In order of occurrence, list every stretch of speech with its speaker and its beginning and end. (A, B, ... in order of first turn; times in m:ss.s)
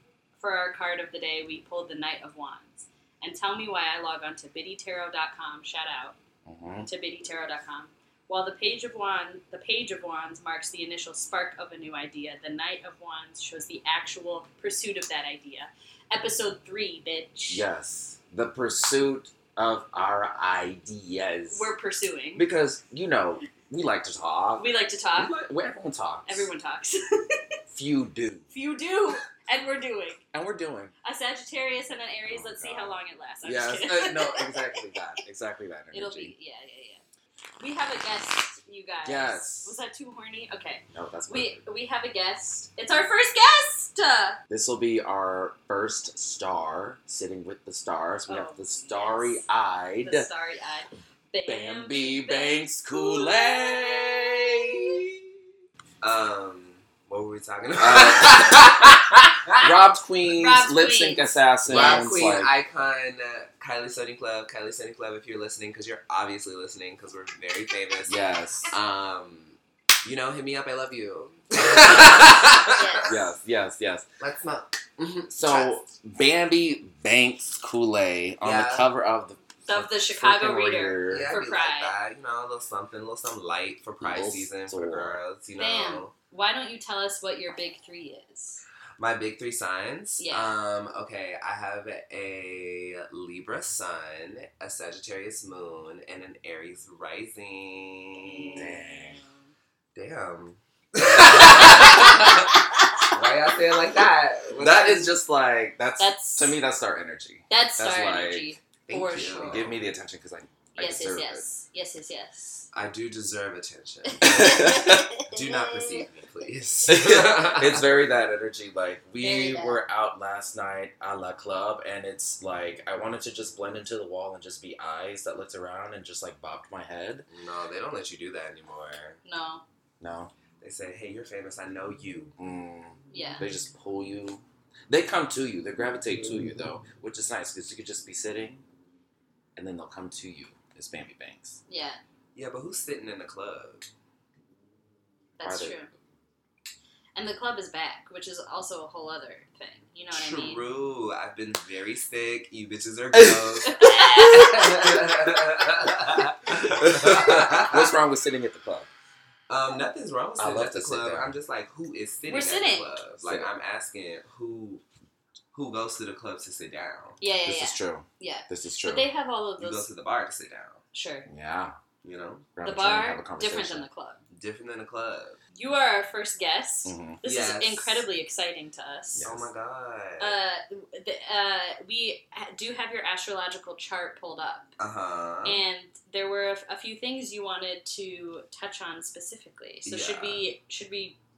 0:00.4-0:06.2 A
0:06.4-0:06.9 B
0:06.8-0:17.6 A
0:17.5-0:21.7 B
0:21.5-0:22.4 A
0:22.4-0:26.5 B
0:24.6-0:25.3 A
0:26.2-0:27.4 A
0:27.7-0:28.4 B
0:28.5-0:30.2 A
0:30.3-0:30.9 B
0:31.0-0:35.0 A
0:32.3-0:36.3 B
0:35.9-0:37.0 A
0:37.6-0:44.4 A
0:39.0-0:39.8 B
0:40.9-0:41.6 B
0:44.5-0:50.3 B
0:48.3-0:49.4 A
0:50.0-0:54.1 A
0:51.4-0:55.2 B
0:56.0-0:59.7 C
0:57.8-0:59.0 B
0:59.6-1:02.5 B
1:00.3-1:02.4 A
1:01.6-1:08.2 C
1:08.0-1:08.7 B
1:08.7-1:13.2 C
1:12.7-1:13.2 A
1:13.1-1:14.0 B
1:14.2-1:15.8 C
1:15.3-1:21.4 B
1:18.4-1:18.9 C
1:19.7-1:22.0 A
1:21.1-1:26.1 C
1:24.0-1:25.2 B
1:25.6-1:28.6 A
1:29.0-1:38.8 C
1:30.2-1:30.5 A
1:38.2-1:39.5 A
1:38.6-1:39.2 B
1:39.9-1:45.2 C
1:41.4-1:43.0 A
1:44.6-1:48.5 B
1:46.0-1:46.6 A
1:47.5-1:49.6 A
1:48.9-1:49.8 C
1:49.4-1:51.4 B
1:50.7-1:52.7 A
1:52.7-1:57.9 C
1:54.2-1:55.1 B
1:54.7-1:55.2 A
1:56.8-2:07.3 B
1:59.2-1:59.8 A
2:07.3-2:09.2 C
2:09.2-2:09.6 A
2:10.0-2:10.3 B
2:10.6-2:12.3 C
2:12.4-2:18.6 B
2:13.1-2:13.5 A
2:19.6-2:21.6 B
2:21.7-2:22.0 A
2:22.4-2:23.9 C
2:25.4-2:25.9 A
2:25.4-2:25.8 B
2:27.1-2:30.6 A
2:30.1-2:37.9 C
2:33.1-2:34.8 B
2:33.6-2:34.9 A
2:36.6-2:38.9 B
2:39.5-2:44.8 C
2:40.4-2:41.4 B
2:42.2-2:42.9 A
2:43.2-2:43.5 B
2:45.5-2:47.2 C
2:47.2-2:49.9 A
2:47.4-2:49.1 B
2:49.6-2:50.8 C
2:50.9-2:51.3 A
2:51.3-2:51.8 B
2:52.0-2:52.5 C
2:52.6-2:53.9 B
2:52.6-2:54.2 A
2:54.3-2:55.4 C
2:55.5-2:59.2 A
2:56.8-2:57.2 B
2:57.2-2:58.0 C
2:59.1-2:59.5 B
2:59.2-3:00.4 C
3:00.2-3:04.7 A
3:04.8-3:05.6 C
3:05.4-3:11.2 A
3:09.8-3:10.4 C